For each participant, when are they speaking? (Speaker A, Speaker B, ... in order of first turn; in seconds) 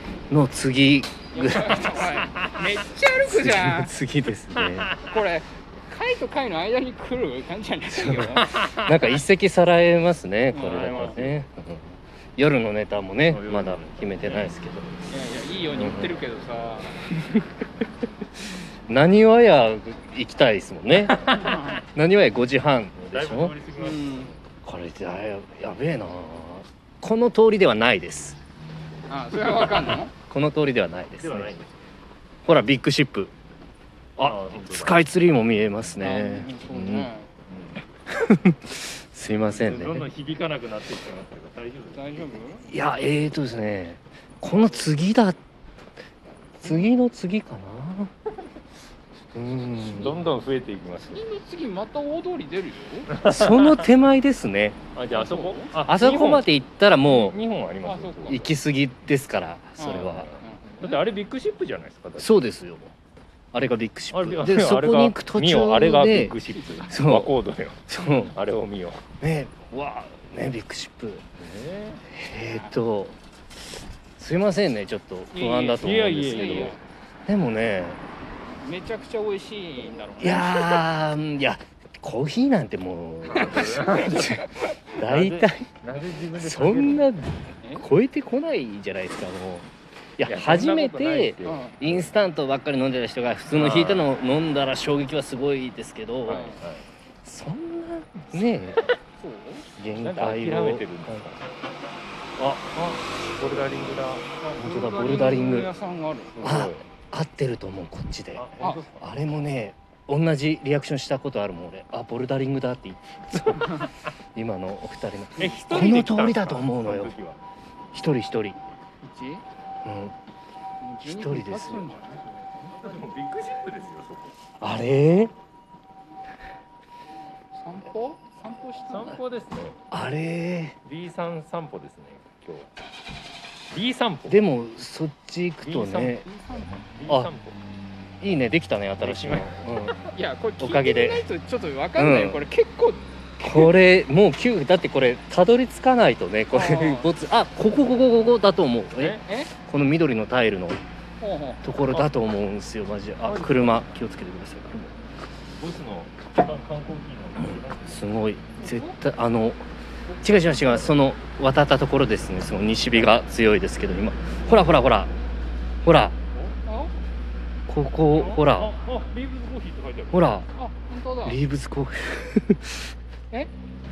Speaker A: 0.3-2.2, 3.2-4.9, 7.9-15.0, 15.7-16.2, 18.9-23.6, 24.6-28.4, 29.9-31.6, 32.5-33.3, 34.2-37.1, 38.1-40.1, 42.6-45.4, 46.6-48.1, 49.3-50.1, 53.2-54.8, 55.8-57.4, 58.3-60.3, 62.2-62.9, 63.5-66.4, 66.9-67.3, 67.9-68.3, 69.2-71.2, 72.1-73.2, 74.2-76.8, 77.3-78.0, 80.2-85.7, 86.4-96.5, 97.2-98.8, 99.8-101.2, 102.4-102.6, 104.5-105.7, 106.4-108.5, 109.0-117.1, 117.9-118.6, 119.8-120.1, 121.1-121.9, 124.6-125.3, 129.9-130.8, 134.3-136.2, 138.2-140.1, 140.6-141.2, 141.9-142.4, 143.4-150.8, 151.6-154.9, 157.8-159.7, 160.2-165.1, 165.8-166.2, 167.7-168.7, 170.1-170.5, 171.2-172.8
Speaker B: 1.3-4.0, 5.0-8.7, 10.5-11.2, 15.1-17.2, 21.3-21.8, 23.8-24.3, 29.1-30.1, 36.0-37.3, 41.9-42.6, 51.1-53.1, 55.1-55.7, 57.8-58.5, 59.8-61.0, 66.5-66.9, 72.3-72.7, 75.3-76.8, 78.6-80.8, 83.3-84.7, 91.4-91.8, 96.3-96.6, 99.2-99.7, 104.8-106.4, 108.6-108.8, 119.0-119.4, 120.8-122.6, 127.5-129.2, 136.2-136.9, 140.0-143.7, 146.5-147.1, 149.2-149.5, 151.2-151.6, 158.6-158.9, 166.6-166.9, 170.6-171.4
Speaker C: 2.3-2.6, 4.5-5.1, 8.6-8.9, 10.6-11.4, 13.3-14.5, 23.1-24.3, 31.2-31.7, 34.2-35.0, 37.5-37.8, 39.5-42.3, 49.8-51.3, 53.1-53.9, 54.9-56.5, 57.0-58.5, 60.8-62.3, 64.1-69.0, 71.4-72.0, 75.8-76.8, 83.3-84.4, 85.0-87.1, 90.2-92.1, 93.5-94.1, 96.2-96.8, 100.0-101.5, 102.7-105.7, 106.3-106.8, 108.3-109.1, 115.4-117.4, 122.6-124.3, 128.9-129.8, 130.8-132.7, 133.7-134.4, 135.6-136.2, 136.8-137.6, 139.0-139.5, 153.2-153.9, 155.6-158.1, 160.5-160.9, 168.1-170.3